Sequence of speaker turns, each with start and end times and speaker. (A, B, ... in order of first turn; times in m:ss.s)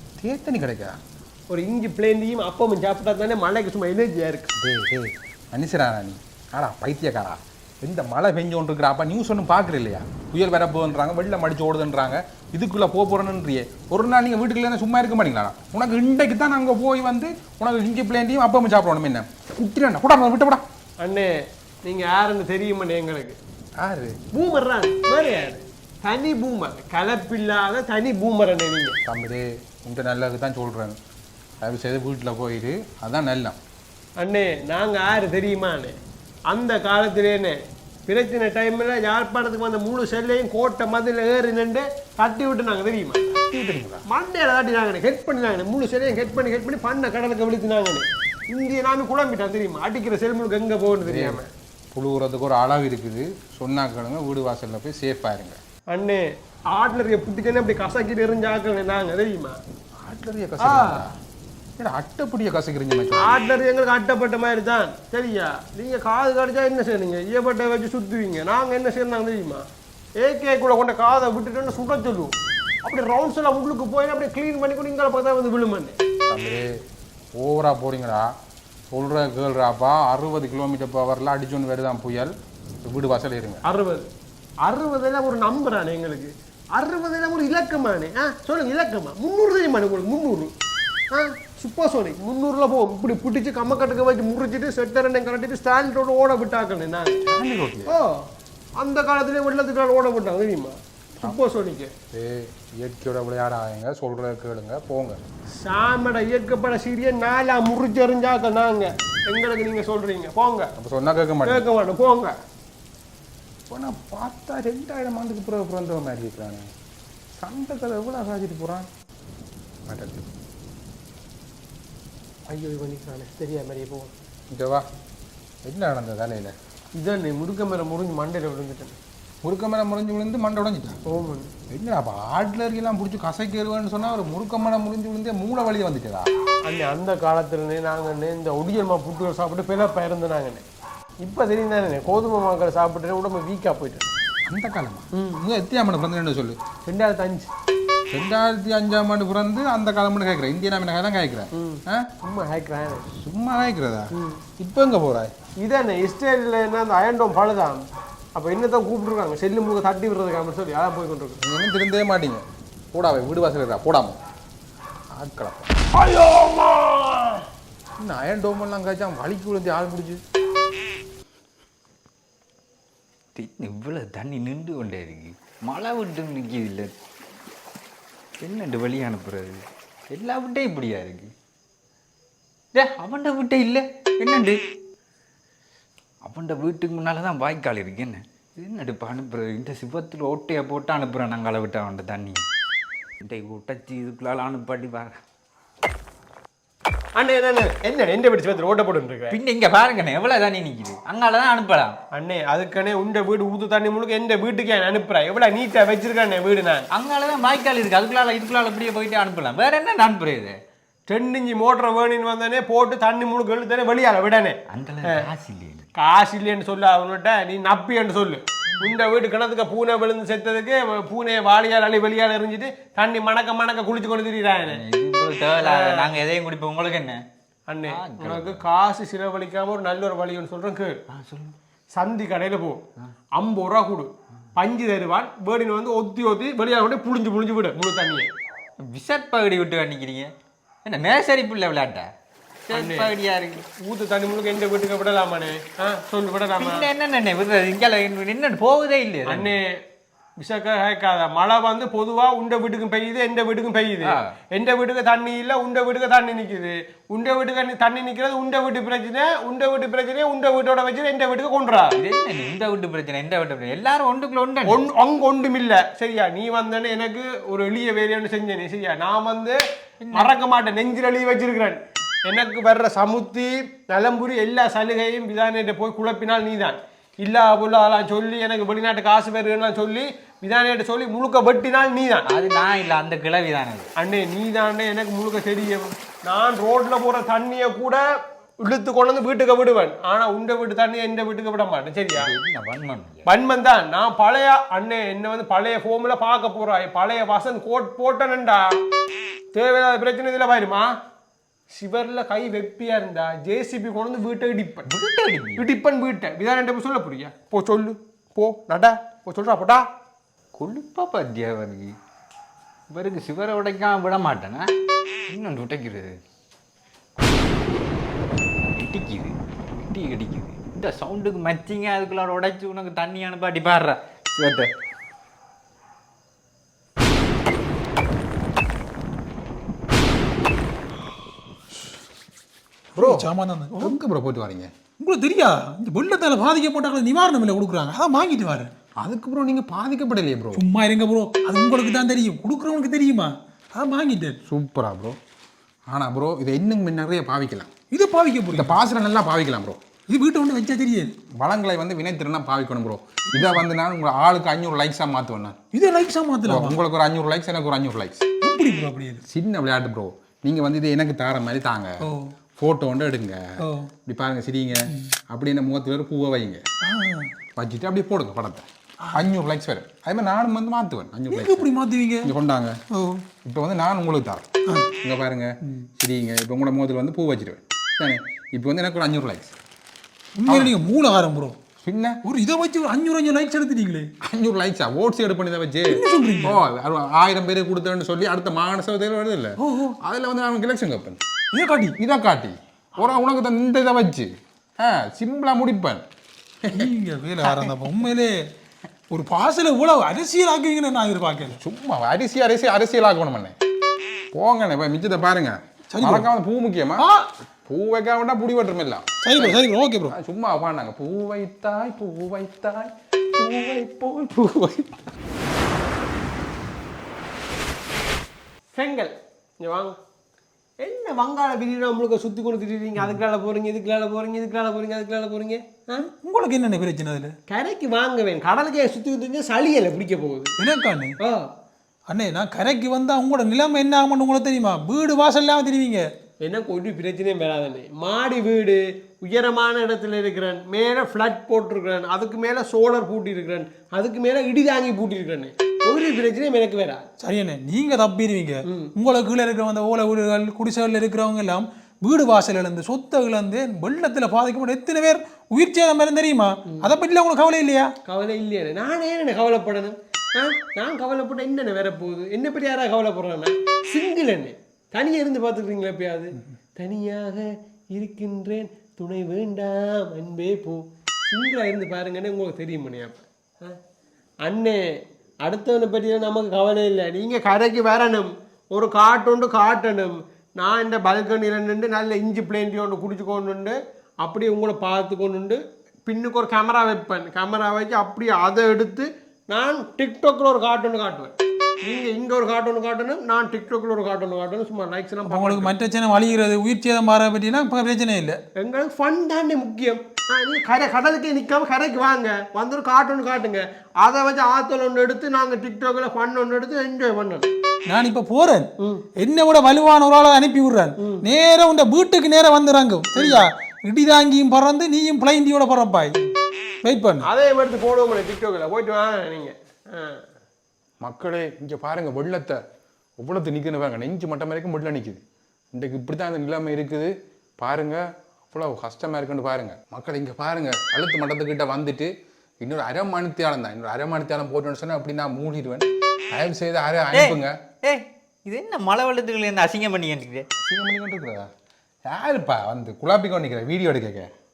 0:00.2-0:01.0 A
0:01.5-0:04.5 B
0:04.6-0:20.6 A
0:21.0-0:21.3 B
0:21.8-0:23.4 B
0:23.8-0:24.2 A
0:24.3-0:29.0 B
0:29.1-0:31.0 A
0:31.6-0:33.6 A
0:34.2-0:36.0 B
0:36.5-0:43.3 B
0:43.4-0:44.0 A
0:44.1-0:51.5 B
0:51.0-0:51.4 A
0:51.9-0:55.6 A
0:55.9-0:59.6 B
1:00.0-1:01.1 A
1:00.6-1:01.1 B
1:01.8-1:03.4 A
1:03.2-1:09.6 B
1:10.2-1:16.0 B
1:16.3-1:16.7 A
1:17.4-1:18.3 A
1:18.9-1:22.3 A
1:22.8-1:23.6 A
1:23.6-1:24.1 B
1:24.7-1:30.5 B
1:31.1-1:37.2 B
1:37.2-1:38.0 A
1:37.9-1:38.2 B
1:38.8-1:41.9 B
1:42.1-1:45.2 A
1:45.6-1:50.7 B
1:50.8-1:51.7 A
1:51.4-1:52.3 B
1:53.7-1:56.7 A
1:57.4-1:58.9 A
1:59.9-2:00.3 A
2:02.5-2:04.1 B
2:04.5-2:04.9 A
2:05.6-2:06.6 A
2:07.0-2:09.0 B
2:09.4-2:11.0 A
2:11.1-2:11.5 B
2:11.7-2:16.3 A
2:16.7-2:20.6 B
2:21.2-2:24.1 B
2:24.5-2:26.6 A
2:25.2-2:25.4 B
2:26.9-2:27.5 B
2:28.1-2:32.1 A
2:31.6-2:33.1 B
2:33.2-2:35.3 A
2:34.1-2:34.4 B
2:35.6-2:37.8 B
2:38.4-2:41.4 B
2:41.4-2:44.2 A
2:45.1-2:45.7 A
2:45.9-2:47.4 B
2:48.0-2:50.2 A
2:53.4-2:56.9 C
2:58.4-3:01.3 C
3:02.7-3:04.6 C
3:06.2-3:12.4 C
3:13.2-3:15.2 C
3:17.2-3:19.4 B
3:19.3-3:22.0 C
3:22.1-3:26.9 B
3:26.9-3:30.6 C
3:31.1-3:35.3 B
3:34.7-3:35.8 C
3:36.0-3:44.8 B
3:44.6-3:47.2 C
3:45.6-3:46.1 B
3:47.7-3:51.0 B
3:47.9-3:48.6 C
3:51.1-3:51.6 C
3:52.0-3:52.8 B
3:53.4-3:58.3 B
3:58.8-4:00.3 C
4:00.8-4:02.1 C
4:02.7-4:03.6 C
4:02.7-4:03.1 B
4:03.7-4:06.9 B
4:06.6-4:09.6 C
4:09.3-4:09.7 B
4:10.4-4:22.0 B
4:14.0-4:14.3 C
4:22.0-4:24.8 C
4:24.7-4:29.6 B
4:30.0-4:30.3 C
4:30.1-4:42.3 B
4:42.3-4:43.9 C
4:44.0-4:48.0 B
4:48.6-4:52.3 B
4:52.1-4:53.3 C
4:53.3-4:58.8 B
4:59.5-5:00.9 B
5:01.7-5:04.9 B
5:04.9-5:05.7 C
5:05.6-5:09.8 B
5:10.6-5:11.9 C
5:12.9-5:14.7 C
5:15.3-5:16.1 C
5:18.7-5:19.4 C
5:19.9-5:24.7 C
5:33.0-5:34.0 D
5:33.0-5:34.7 A
5:35.0-5:38.7 D
5:39.0-5:40.7 A
5:40.5-5:44.4 D
5:44.5-5:45.2 A
5:45.9-5:47.7 A
5:47.9-5:48.8 D
5:48.5-5:49.8 A
5:50.1-5:51.1 D
5:51.4-5:55.6 A
5:53.3-5:53.6 D
5:55.7-5:56.8 D
5:56.4-5:58.2 A
5:58.4-5:59.2 D
5:59.3-6:02.0 A
6:02.0-6:02.3 D
6:02.6-6:03.4 A
6:03.6-6:03.9 D
6:04.0-6:06.6 A
6:06.8-6:07.3 D
6:07.6-6:11.7 A
6:11.3-6:12.3 D
6:12.2-6:12.8 A
6:12.9-6:13.2 D
6:13.4-6:14.4 A
6:15.0-6:19.6 A
6:20.4-6:21.6 D
6:20.5-6:20.8 A
6:21.8-6:22.2 A
6:22.2-6:24.1 D
6:24.2-6:31.2 A
6:25.9-6:26.6 D
6:29.6-6:30.0 D
6:31.5-6:32.0 D
6:32.0-6:36.0 A
6:36.6-6:36.9 A
6:36.7-6:38.5 D
6:39.1-6:41.6 D
6:41.5-6:43.6 A
6:44.3-6:47.1 A
6:45.9-6:46.3 D
6:47.0-6:47.3 D
6:47.7-6:55.0 A
6:49.2-6:50.2 D
6:58.7-7:00.0 B
7:00.8-7:06.1 B
7:06.1-7:07.4 D
7:07.5-7:10.6 B
7:10.6-7:11.2 D
7:11.2-7:11.5 B
7:12.1-7:16.0 D
7:16.4-7:27.1 B
7:27.2-7:37.9 D
7:28.7-7:28.9 B
7:36.7-7:36.9 B
7:38.1-7:53.8 B
7:54.4-7:54.8 B
7:55.4-8:15.7 B
8:15.3-8:18.4 D
8:18.6-8:27.5 B
8:27.9-8:36.2 D
8:28.8-8:29.1 B
8:31.0-8:31.3 B
8:33.2-8:33.5 B
8:36.8-8:37.3 D
8:37.2-8:40.2 B
8:41.0-8:42.6 A
8:43.2-8:45.2 A
8:45.7-8:48.0 A
8:48.5-8:57.5 A
8:57.1-9:00.5 C
9:00.6-9:01.5 A
9:02.1-9:04.3 A